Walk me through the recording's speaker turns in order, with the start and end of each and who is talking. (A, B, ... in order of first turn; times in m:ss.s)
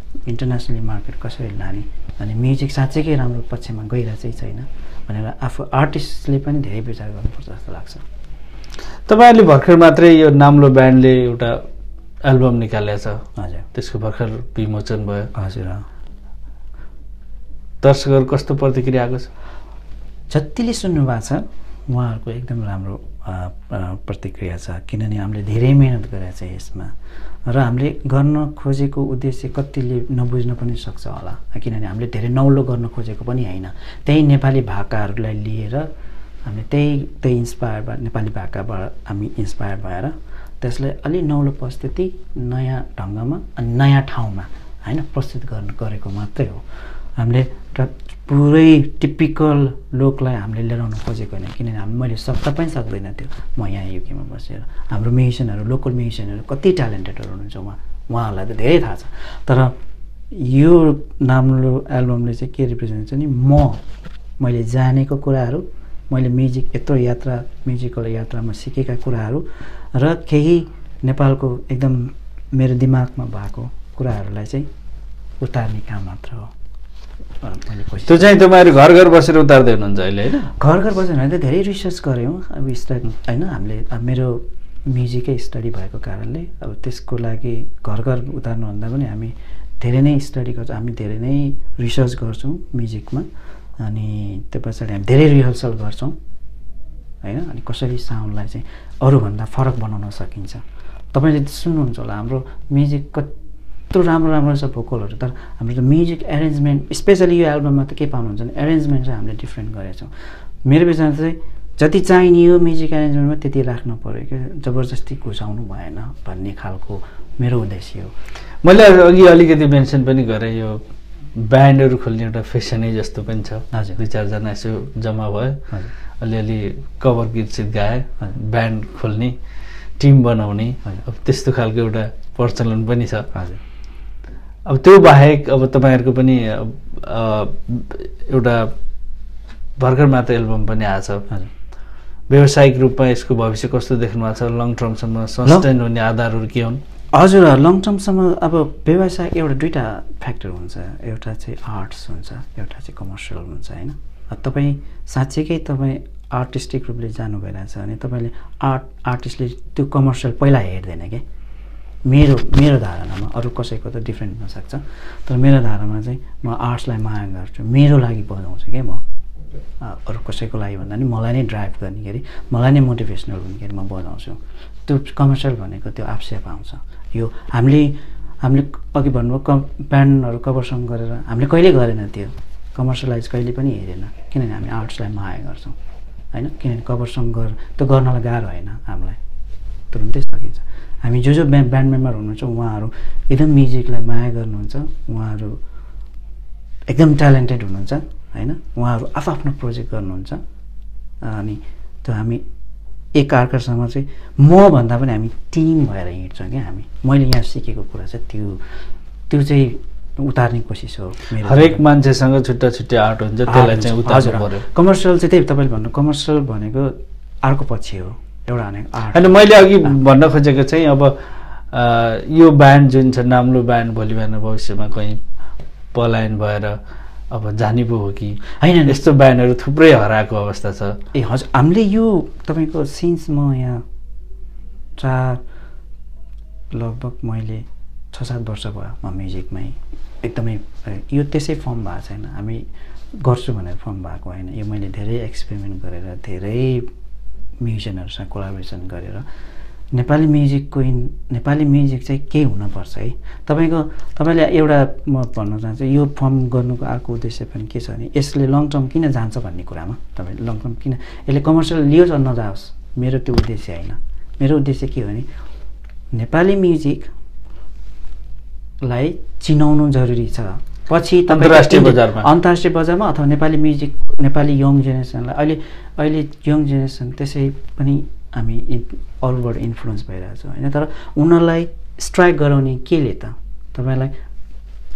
0:00.3-0:08.0 A
0:09.1-0:11.6 B
0:12.2-0:13.2 B
0:13.4-0:13.7 A
0:13.7-0:15.3 B
0:15.3-0:15.9 A
0:17.8-0:19.3 B
0:20.3-0:26.9 A
0:27.5-0:35.9 A
0:36.4-0:46.6 A
0:47.2-0:59.8 A
1:00.3-1:03.8 A
1:04.4-1:14.7 A
1:15.4-1:16.5 A
1:17.4-1:18.4 A
1:18.1-1:20.5 B
1:20.4-1:33.3 A
1:33.8-1:36.2 A
1:37.2-1:43.3 A
1:43.9-1:50.1 A
1:50.6-1:58.1 A
1:58.6-2:00.8 B
2:01.4-2:05.7 B
2:03.7-2:04.0 A
2:06.2-2:09.4 B
2:10.0-2:13.3 B
2:13.3-2:13.6 A
2:14.7-2:18.7 B
2:19.8-2:21.3 B
2:22.3-2:26.8 B
2:27.1-2:41.2 A
2:42.1-2:49.0 A
2:49.8-3:05.8 A
3:06.3-3:09.2 A
3:09.9-3:15.6 A
3:16.9-3:20.4 A
3:21.2-3:22.4 A
3:23.2-3:28.6 A
3:29.3-3:31.8 A
3:31.4-3:34.6 B
3:33.5-3:40.0 A
3:39.1-3:41.2 B
3:41.7-3:45.2 B
3:45.9-3:46.8 B
3:47.3-3:51.0 B
3:48.5-3:49.0 A
3:51.1-3:53.8 A
3:55.0-3:55.4 A
3:56.7-4:02.6 A
4:03.2-4:06.9 A
4:07.6-4:09.3 A
4:09.9-4:25.3 A
4:26.1-4:27.1 A
4:28.8-4:44.2 A
4:31.3-4:32.3 B